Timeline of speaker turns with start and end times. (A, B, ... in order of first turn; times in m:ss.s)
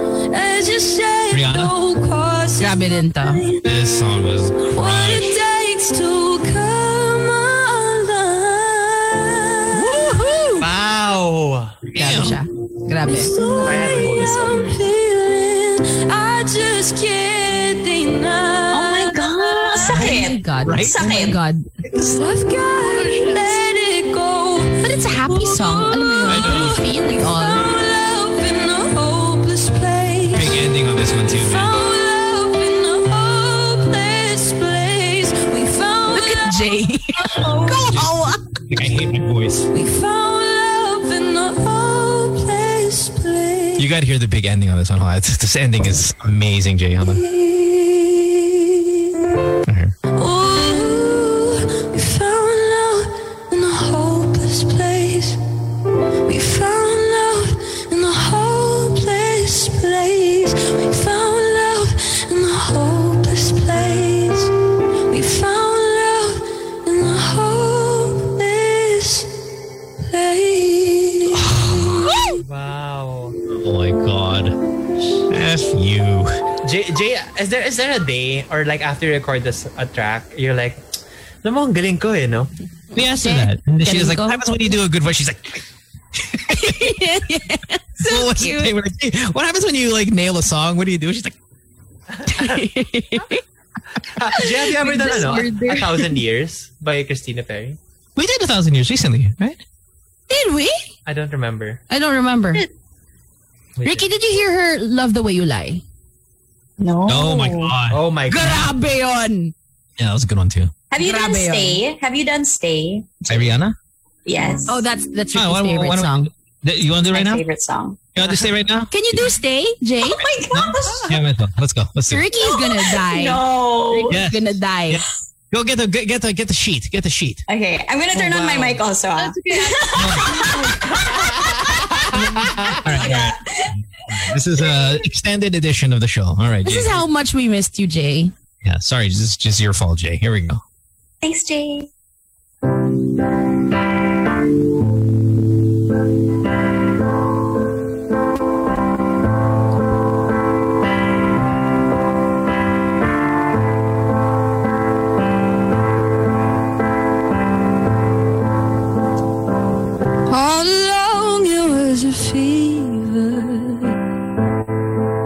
0:00.3-0:03.6 A
0:01.3-0:01.7 B
0:02.6-0:03.5 C
0:03.6-0:05.4 B
0:04.7-0:10.0 A
0:09.8-0:10.7 B
0:10.6-0:11.8 D
0:11.9-0:12.4 B
0:12.0-0:13.3 C
0:13.0-0:20.2 A
0:13.4-0:14.8 D
0:18.7-0:21.4 E
0:19.9-0:21.7 C
0:20.6-0:21.0 B
0:22.1-0:38.0 A
0:24.8-0:27.7 C
0:26.3-0:26.8 B
0:30.3-0:31.8 B
0:36.1-0:38.5 C
0:38.7-0:39.7 B
0:39.7-0:43.9 A
0:43.8-0:47.2 B
0:47.0-0:49.1 A
0:49.6-0:50.0 B
0:50.1-0:55.4 A
0:56.3-1:04.5 A
1:05.1-1:09.3 A
1:10.0-1:12.1 A
1:11.3-1:12.2 B
1:12.4-1:13.4 D
1:13.5-1:14.6 B
1:15.3-1:16.4 B
1:16.6-1:20.8 D
1:21.4-1:22.5 D
1:22.9-1:25.6 B
1:23.0-1:24.4 C
1:26.3-1:27.0 B
1:26.5-1:28.6 C
1:28.0-1:31.4 B
1:32.1-1:32.7 D
1:32.3-1:33.4 C
1:34.0-1:37.8 D
1:34.4-1:36.1 A
1:38.2-1:39.6 B
1:40.3-1:40.9 C
1:41.1-1:41.8 D
1:41.9-1:42.7 C
1:43.8-1:44.1 D
1:43.8-1:45.8 C
1:46.8-1:47.8 E
1:47.1-1:48.0 B
1:47.9-1:48.7 D
1:48.3-1:49.5 C
1:50.0-1:50.7 B
1:50.9-1:53.5 E
1:51.0-1:51.8 C
1:53.3-1:53.8 B
1:54.3-1:54.8 E
1:54.7-1:56.3 C
1:55.3-1:57.4 B
1:57.1-1:58.0 E
1:58.1-1:59.2 B
1:58.9-2:00.2 C
2:00.0-2:01.2 E
2:00.5-2:02.3 B
2:02.1-2:05.0 C
2:02.3-2:04.2 E
2:04.1-2:07.4 B
2:07.5-2:11.1 E
2:08.1-2:08.8 D
2:09.2-2:10.8 A
2:10.0-2:10.5 B
2:12.1-2:12.8 C
2:12.4-2:12.9 D
2:12.8-2:13.4 B
2:13.0-2:14.3 E
2:14.0-2:17.0 B
2:16.6-2:18.3 C
2:18.6-2:20.6 B
2:21.2-2:21.9 E
2:40.3-2:44.0 A